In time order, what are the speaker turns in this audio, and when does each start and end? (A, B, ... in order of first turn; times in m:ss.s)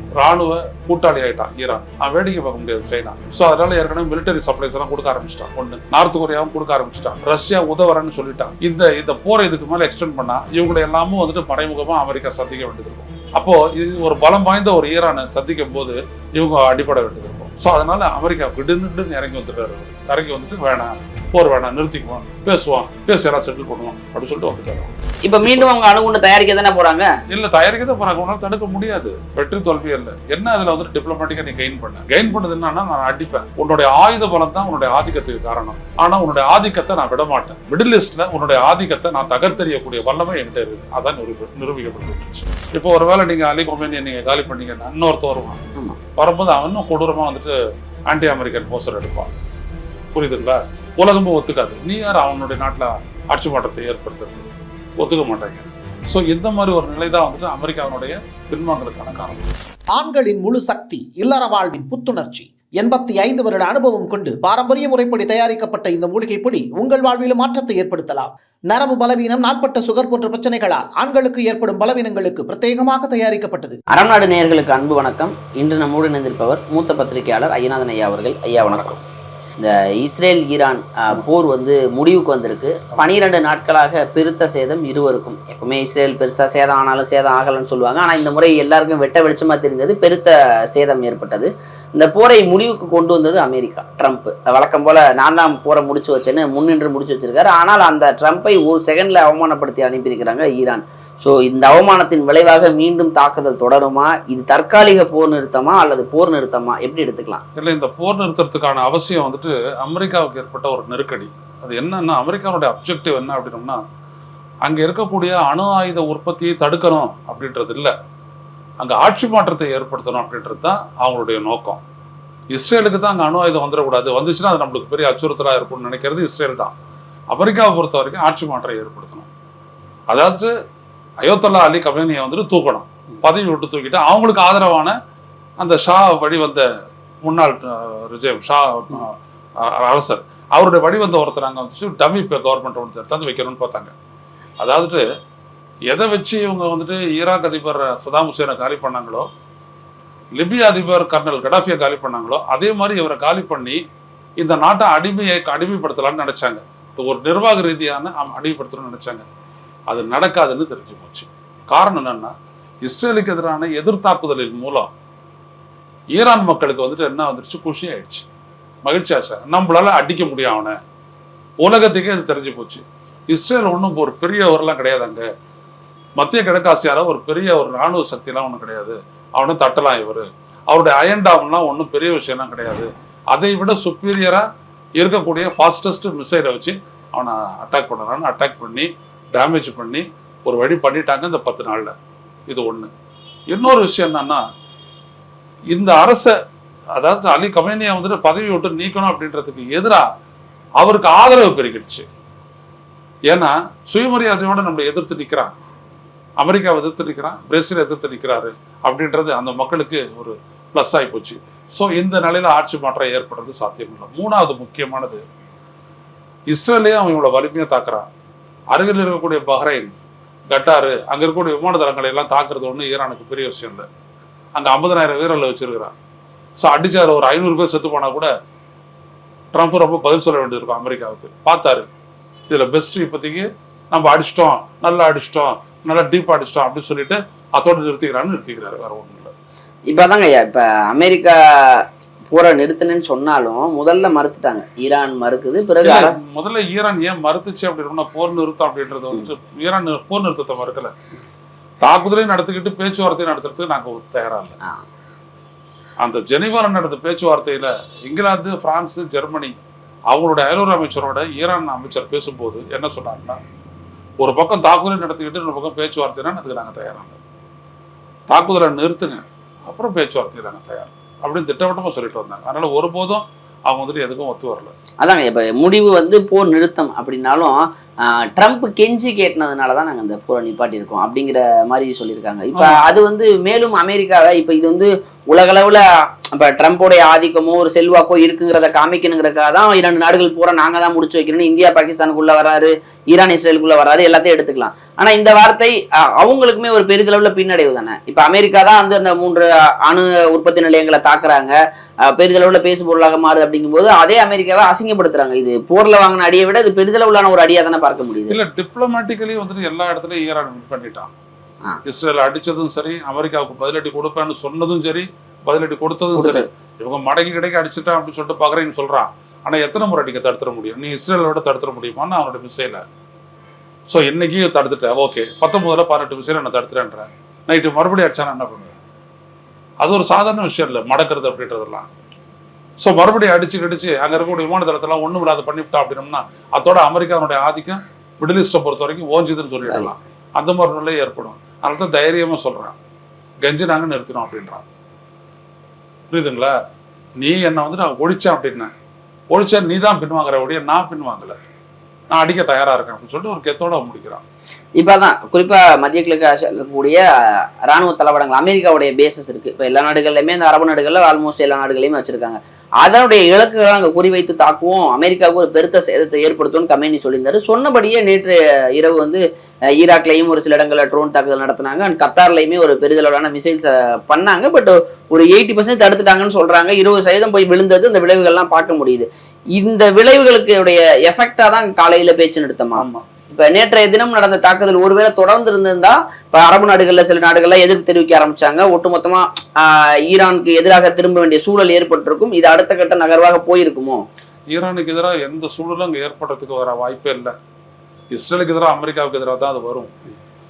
0:00.2-0:25.7 A
0:25.2-0:27.1 B
0:27.3-0:45.6 A
0:46.1-0:47.5 A
0:48.1-0:49.3 A
0:50.1-0:54.5 A
0:55.0-0:59.5 A
0:59.9-1:13.8 C
1:13.9-1:19.0 B
1:18.7-1:19.0 A
1:19.6-1:47.4 B
1:47.6-1:53.8 A
1:54.6-1:57.9 A
1:58.8-2:01.8 A
2:02.5-2:06.7 A
2:07.3-2:09.3 A
2:10.1-2:10.5 A
2:11.2-2:14.9 A
2:15.6-2:16.6 A
2:17.2-2:23.9 A
2:24.6-2:25.0 A
2:25.9-2:29.3 A
2:30.4-2:33.8 A
2:34.4-2:39.2 A
2:39.9-2:44.9 A
2:46.1-2:48.2 A
2:48.8-2:50.8 A
2:51.6-2:55.3 A
2:56.2-3:04.4 A
3:05.0-3:11.9 A
3:12.5-3:12.9 A
3:13.5-3:14.4 A
3:15.7-3:16.3 A
3:17.0-3:20.0 A
3:20.8-3:22.0 A
3:23.3-3:25.5 A
3:26.4-3:35.2 A
3:36.5-3:38.0 A
3:38.7-3:39.9 A
3:40.5-3:43.8 A
3:44.6-3:45.9 A
3:46.6-3:48.3 A
3:49.5-3:51.9 A
3:52.5-3:59.3 A
3:59.9-4:06.1 B
4:05.8-4:10.9 A
4:11.8-4:14.6 A
4:16.0-4:19.5 A
4:20.1-4:23.4 A
4:24.2-4:27.2 A
4:28.3-4:34.7 A
4:35.0-5:08.4 B
4:42.5-4:42.8 A
5:08.3-5:11.1 A
5:11.8-5:22.8 A
5:16.2-5:16.4 B
5:23.9-5:28.8 A
5:29.8-5:31.9 A
5:32.8-5:42.8 A
5:39.7-5:39.9 B
5:43.4-5:44.6 A
5:46.1-5:46.5 A
5:47.2-5:48.7 A
5:49.3-5:51.4 A
5:52.1-5:54.2 A
5:54.8-6:34.0 B
6:22.7-6:23.0 A
6:34.5-6:37.3 A
6:38.1-6:40.0 A